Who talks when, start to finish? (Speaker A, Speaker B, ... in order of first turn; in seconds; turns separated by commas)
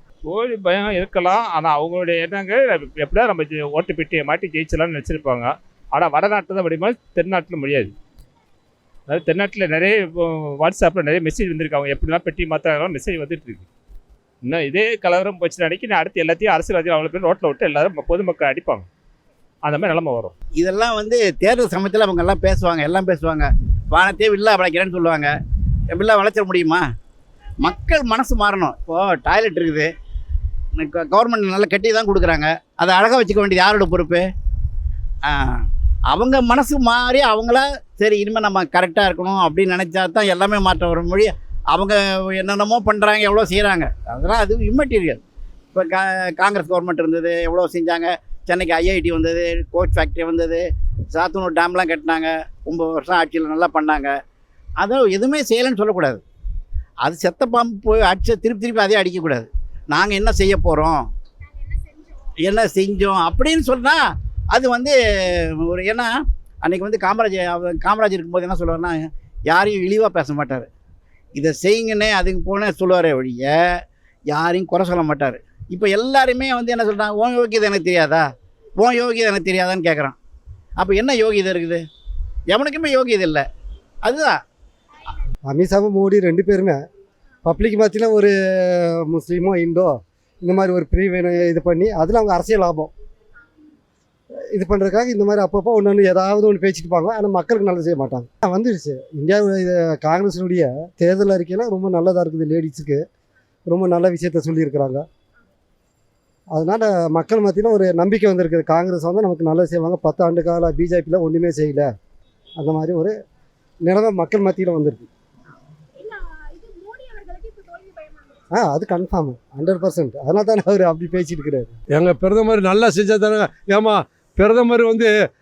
Speaker A: 0.2-7.9, Speaker A: 9.1-13.6, Speaker A: 14.4-18.9, Speaker A: 19.6-20.3, Speaker B: 20.6-25.3, Speaker B: 25.9-26.9, Speaker B: 27.6-29.9, Speaker B: 30.8-34.3, Speaker B: 35.2-45.2, Speaker B: 45.7-54.1, Speaker B: 54.8-56.2, Speaker B: 57.0-61.1, Speaker C: 61.6-62.1, Speaker B: 62.4-66.1, Speaker B: 66.6-70.7, Speaker B: 71.3-78.2, Speaker B: 78.8-80.2, Speaker B: 80.8-81.8, Speaker B: 82.5-83.4, Speaker B: 84.0-84.4, Speaker D: 85.5-86.8, Speaker D: 87.4-92.9, Speaker D: 94.5-103.0, Speaker D: 103.7-105.0, Speaker D: 106.5-111.9, Speaker D: 112.6-113.2, Speaker D: 113.8-115.1, Speaker C: 116.0-118.4, Speaker D: 118.5-121.8, Speaker E: 121.9-125.1